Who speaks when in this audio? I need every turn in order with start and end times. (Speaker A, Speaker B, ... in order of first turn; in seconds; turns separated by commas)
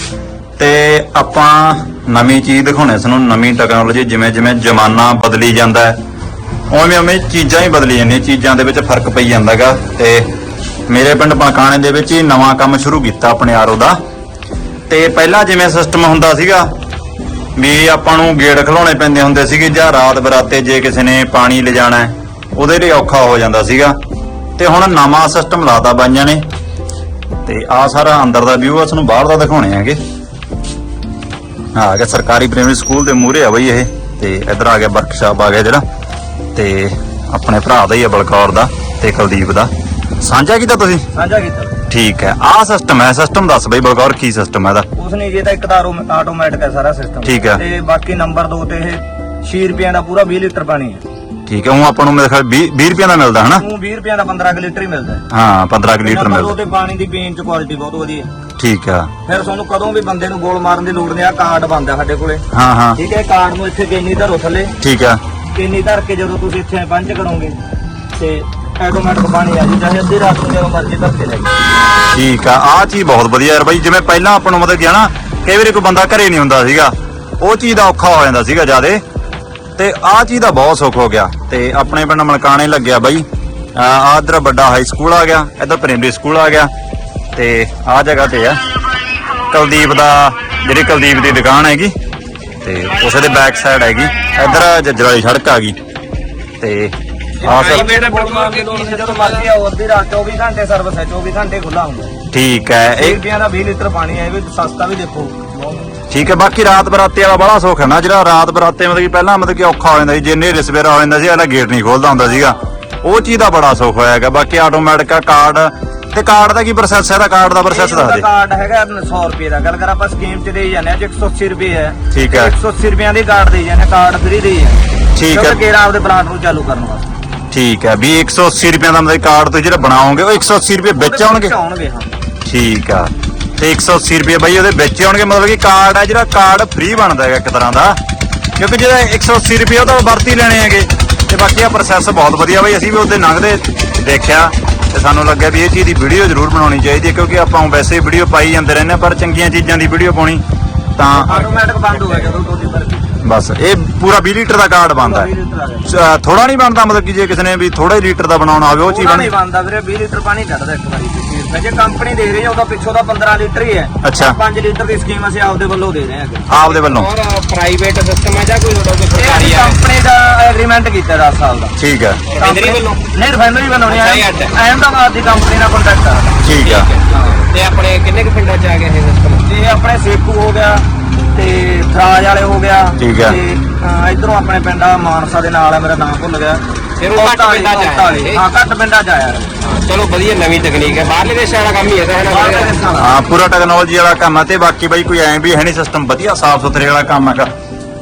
Speaker A: 0.6-6.0, Speaker A: 6.7-10.3, Speaker A: 10.9-14.0, Speaker A: 14.9-16.7, Speaker A: 17.6-23.9, Speaker A: 24.6-26.4, Speaker A: 27.4-30.0, Speaker A: 31.7-35.8, Speaker A: 36.5-41.0, Speaker B: 41.1-41.8, Speaker A: 41.9-44.9, Speaker B: 44.9-51.0, Speaker A: 47.2-47.6, Speaker A: 51.5-53.6, Speaker B: 53.6-55.2, Speaker A: 55.3-56.5, Speaker B: 56.0-58.3, Speaker A: 58.6-59.1, Speaker B: 59.2-62.4, Speaker A: 62.5-63.0, Speaker B: 63.0-64.8, Speaker A: 64.8-65.2, Speaker B: 65.5-67.5, Speaker B: 68.1-71.5, Speaker A: 72.1-79.0, Speaker A: 79.8-86.7, Speaker A: 87.3-88.6, Speaker A: 89.4-91.9, Speaker A: 92.6-95.8, Speaker A: 96.6-96.9, Speaker B: 97.4-102.1, Speaker C: 97.4-99.5, Speaker A: 97.4-97.8, Speaker A: 102.3-103.2, Speaker B: 102.9-105.8, Speaker A: 106.1-118.2, Speaker B: 117.7-127.1, Speaker A: 122.1-122.5, Speaker A: 125.2-125.6, Speaker A: 127.5-131.5, Speaker B: 130.9-132.1, Speaker A: 132.4-138.0, Speaker A: 138.6-150.4, Speaker A: 151.0-151.4, Speaker B: 151.1-153.2, Speaker C: 151.9-152.3, Speaker A: 153.2-155.3, Speaker B: 154.9-155.9, Speaker A: 155.8-159.3, Speaker B: 158.8-166.6, Speaker A: 164.0-164.3, Speaker A: 166.5-167.1, Speaker C: 166.6-169.8, Speaker B: 169.1-171.7, Speaker A: 171.8-172.2, Speaker C: 172.3-173.0, Speaker B: 172.4-176.4, Speaker C: 173.8-174.5, Speaker A: 176.4-176.9, Speaker C: 176.6-179.4, Speaker B: 177.1-177.4, Speaker B: 179.4-189.5, Speaker A: 183.0-183.4, Speaker C: 187.0-188.4, Speaker C: 189.6-192.8, Speaker B: 192.2-193.2, Speaker A: 193.0-197.5